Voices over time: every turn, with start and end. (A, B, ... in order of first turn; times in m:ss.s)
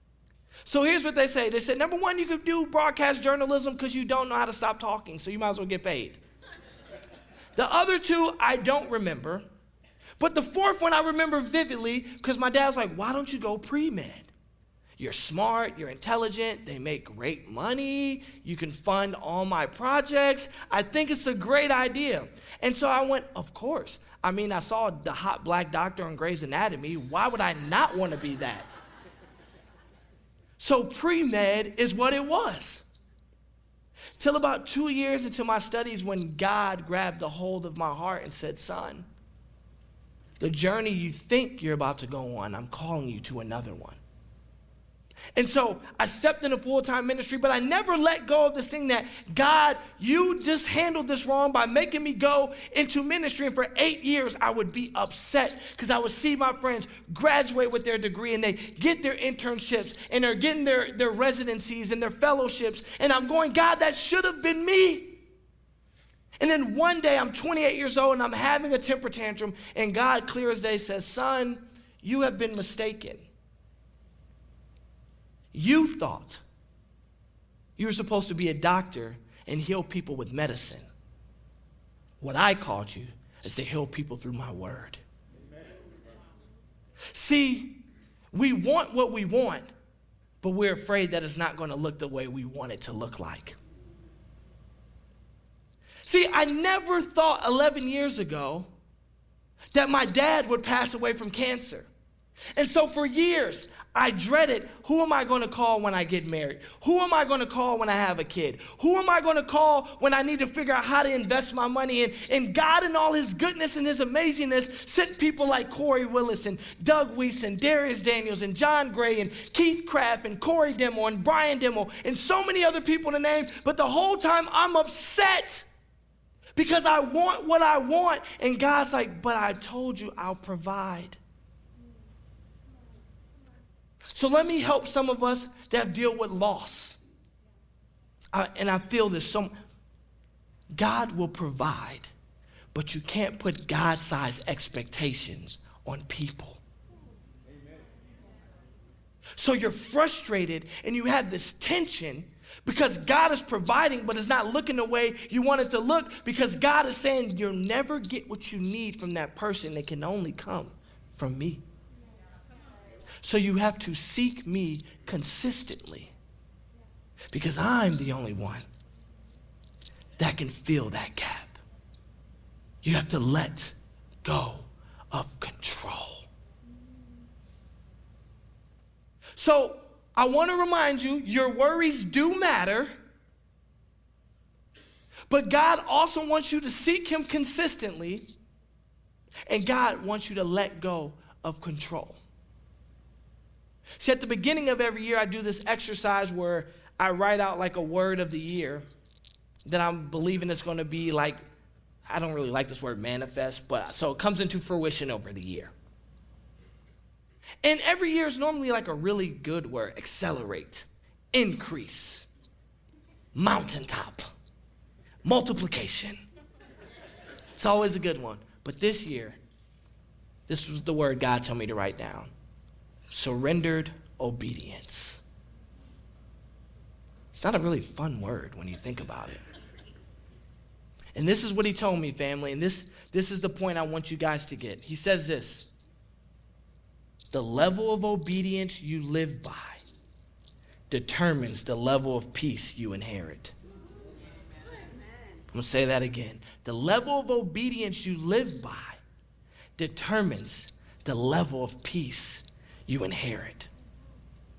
0:00.6-0:06.2 A
0:07.6-0:09.4 A
0:10.2-0:14.3 A
0:15.0-0:28.7 A
0:30.6-0:32.9 A
0:34.2-0:39.1 A
0:40.4-0:44.0 A
0:45.4-1:05.2 A
1:06.4-1:13.3 A
1:15.5-1:16.4 A
1:17.8-1:20.9 A
1:22.2-1:25.0 A
1:27.1-1:29.7 A
1:30.4-1:33.6 A
1:36.0-1:38.7 A
1:39.7-1:41.9 A
1:42.6-2:05.7 A
2:06.6-2:11.2 A
2:14.1-2:17.0 A
2:18.3-2:19.5 A
2:20.7-2:22.1 A
2:22.7-2:26.6 A
2:29.4-2:41.6 A
2:43.2-2:46.1 A
2:47.3-2:48.7 A
2:50.2-2:51.6 A
2:52.8-2:56.3 A
2:59.4-3:02.9 A
3:05.3-3:08.3 A
3:09.5-3:12.2 A
3:14.0-3:18.8 A
3:19.7-3:21.4 A
3:22.1-3:25.7 A
3:27.6-3:32.3 A
3:33.4-3:34.2 A
3:35.2-3:36.2 A
3:37.6-3:39.4 A
3:40.5-3:42.3 A
3:43.1-3:45.2 A
3:47.3-3:49.4 A
3:51.1-3:55.7 A
3:57.3-3:59.8 A
4:00.9-4:03.5 A
4:05.5-4:09.0 A
4:09.8-4:13.7 A